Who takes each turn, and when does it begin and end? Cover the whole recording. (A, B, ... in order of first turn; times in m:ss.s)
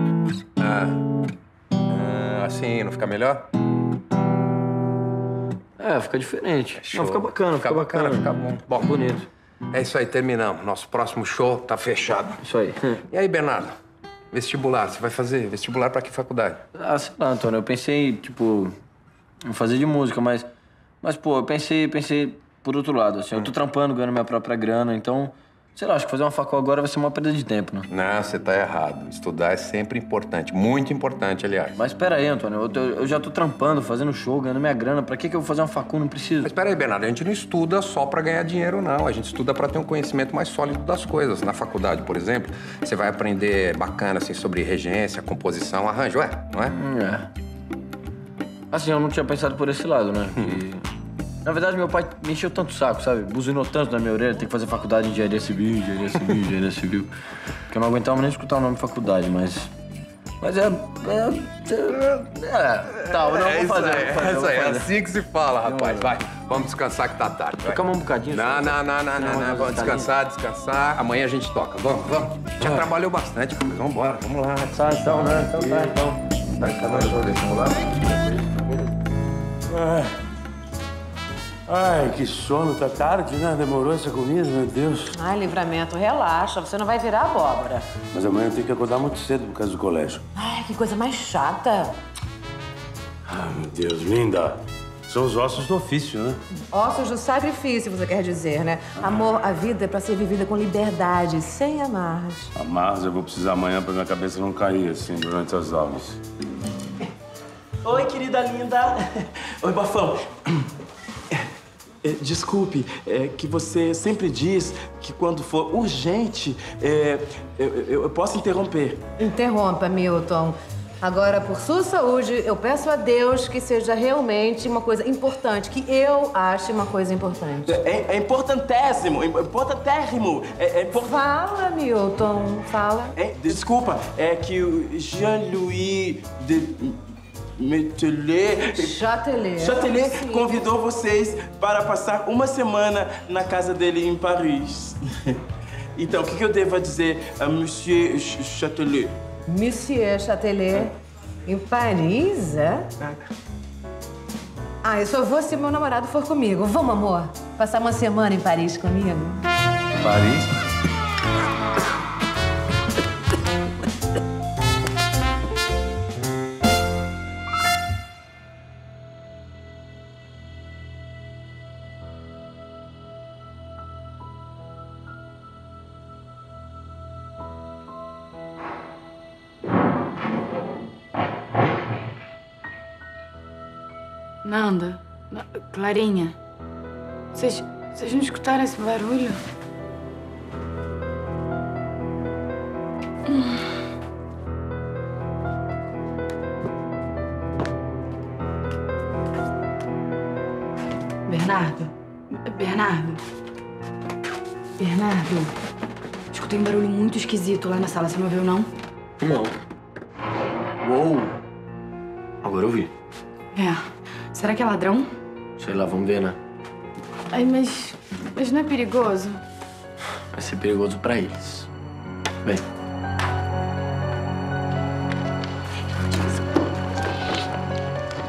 0:00.6-0:01.0 A
0:01.9-0:03.4 A
0:05.8-0:09.2 B
0:06.8-0:08.9 A
0:09.7-0:12.4 A
0:12.4-0:13.0 B
0:13.1-0:13.7 A
0:14.3-0:16.6 A
0:16.8-0:18.7 B
0:19.4-0:20.5 B
0:21.0-0:27.9 B
0:27.9-0:31.8 A
0:31.8-0:36.5 B
0:36.4-0:46.8 A
0:46.7-0:47.3 B
0:48.7-0:50.8 B
0:51.4-0:57.1 B
0:57.7-0:59.7 B
1:00.4-1:04.9 B
1:03.1-1:15.1 A
1:05.6-1:06.1 B
1:07.6-1:10.1 B
1:14.7-1:17.8 B
1:15.3-1:15.9 C
1:16.6-1:17.4 A
1:19.7-1:20.1 C
1:21.7-1:25.2 C
1:25.1-1:27.9 D
1:28.1-1:30.2 C
1:30.4-1:32.0 D
1:33.2-1:36.4 C
1:36.7-1:42.5 D
1:42.5-1:46.2 C
1:47.8-1:50.7 E
1:52.0-1:59.0 E
1:59.2-2:07.8 D
2:07.6-2:11.2 E
2:10.9-2:13.1 D
2:13.2-2:17.0 E
2:17.6-2:19.0 E
2:18.7-2:20.5 D
2:19.6-2:25.4 E
2:26.0-2:29.1 E
2:29.5-2:30.9 D
2:31.4-2:32.8 D
2:34.8-2:39.4 D
2:40.0-2:40.5 C
3:04.4-3:06.3 F
3:07.3-3:09.4 F
3:21.3-3:21.9 F
3:22.4-3:23.2 F
3:24.8-3:25.5 F
3:26.3-3:28.7 F
3:29.2-3:29.5 B
3:30.8-3:31.3 B
3:32.4-3:32.9 B
3:33.5-3:33.8 F
3:34.3-3:35.1 F
3:35.6-3:36.4 B
3:37.3-3:39.4 F
3:40.3-3:41.7 B